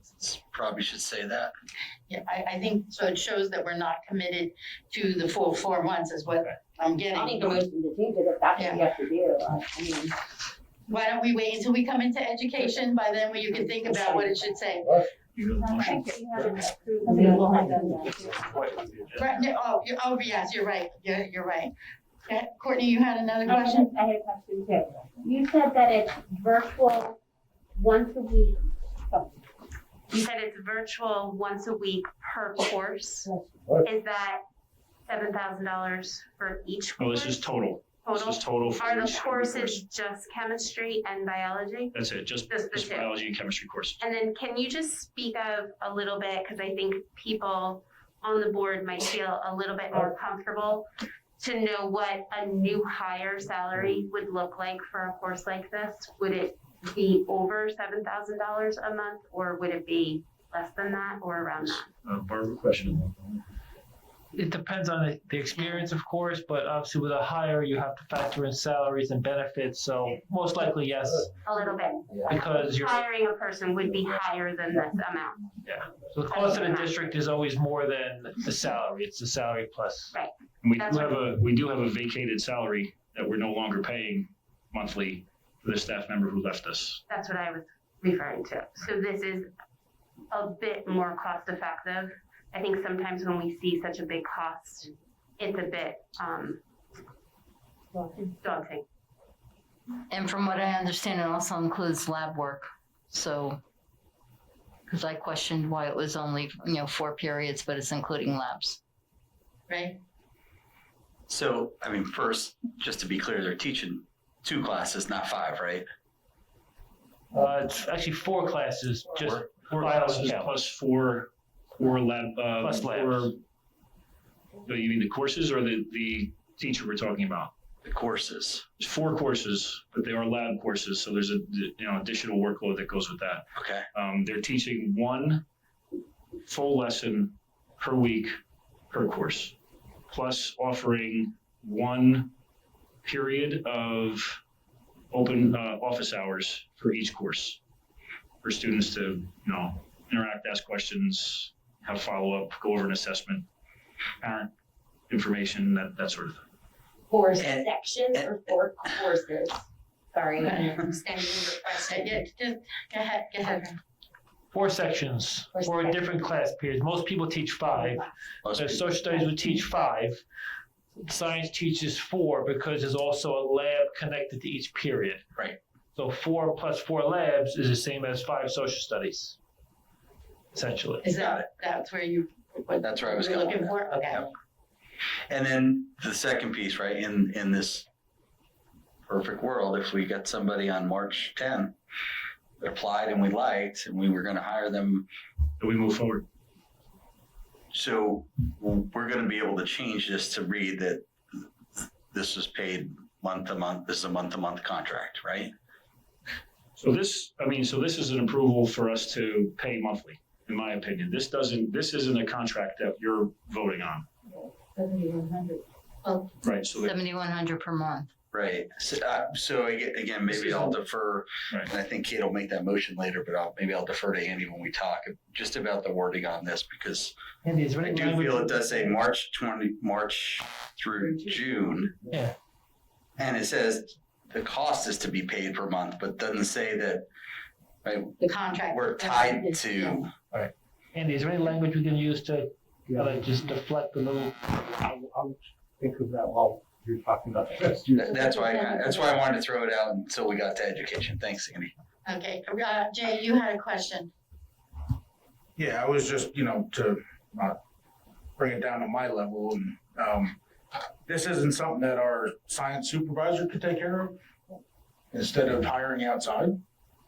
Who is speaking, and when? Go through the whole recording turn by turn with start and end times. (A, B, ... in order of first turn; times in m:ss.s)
0:00.2-0:01.5 A
0:02.1-0:07.6 B
0:07.2-0:10.2 C
0:08.6-0:08.9 B
0:10.9-0:15.0 B
0:15.4-0:15.8 D
0:15.7-0:18.7 E
0:17.0-0:17.8 C
0:19.2-0:21.7 B
0:22.3-0:23.9 B
0:23.5-0:27.2 E
0:27.8-0:29.3 E
0:30.1-0:34.4 E
0:35.1-0:37.5 E
0:37.0-0:39.8 D
0:38.0-0:42.0 E
0:41.9-0:44.0 D
0:42.5-0:43.1 E
0:44.0-0:50.9 E
0:51.4-1:01.9 E
1:01.7-1:03.1 D
1:04.3-1:11.3 F
1:11.4-1:15.5 E
1:12.3-1:13.0 F
1:15.6-1:20.2 F
1:16.2-1:17.0 E
1:20.1-1:21.2 E
1:20.6-1:27.0 D
1:27.1-1:29.5 E
1:30.3-1:36.6 E
1:38.2-1:38.8 E
1:40.1-1:43.6 G
1:44.9-1:48.8 G
1:49.7-1:50.0 B
1:51.3-1:55.8 A
1:57.3-2:00.5 F
1:59.6-2:03.4 D
2:02.6-2:03.3 F
2:04.7-2:07.5 D
2:07.8-2:08.6 A
2:08.8-2:15.4 D
2:13.6-2:13.8 A
2:16.5-2:18.4 D
2:18.9-2:19.5 D
2:20.1-2:22.3 D
2:23.0-2:24.4 D
2:25.1-2:27.6 D
2:28.4-2:33.4 D
2:34.2-2:34.5 D
2:35.1-2:36.4 D
2:37.1-2:42.2 C
2:37.4-2:38.3 A
2:40.4-2:40.8 B
2:41.8-2:43.8 B
2:44.5-2:50.2 F
2:45.5-2:46.3 C
2:48.4-2:49.0 A
2:49.1-2:49.8 C
2:51.0-2:55.3 F
2:56.0-2:59.4 F
3:00.5-3:01.2 F
3:01.0-3:04.3 B
3:01.2-3:01.5 A
3:02.8-3:04.3 A
3:05.3-3:07.9 A
3:09.1-3:11.8 A
3:12.6-3:15.1 A
3:15.6-3:16.2 D
3:17.7-3:21.1 A
3:22.1-3:25.5 A
3:26.8-3:34.1 D
3:34.3-3:35.6 C
3:36.4-3:37.0 D
3:36.8-3:38.1 G
3:38.3-3:47.1 A
3:40.3-3:40.8 F
3:47.4-3:48.9 F
3:47.8-3:52.0 A
3:52.1-3:52.4 F
3:53.2-3:57.1 A
3:57.8-4:00.1 A
3:58.2-4:00.1 B
4:00.3-4:04.4 F
4:02.9-4:03.5 H
4:04.8-4:08.0 H
4:08.0-4:11.7 A
4:12.1-4:14.1 B
4:15.6-4:17.6 I
4:18.4-4:20.4 I
4:21.0-4:24.2 I
4:25.1-4:26.6 I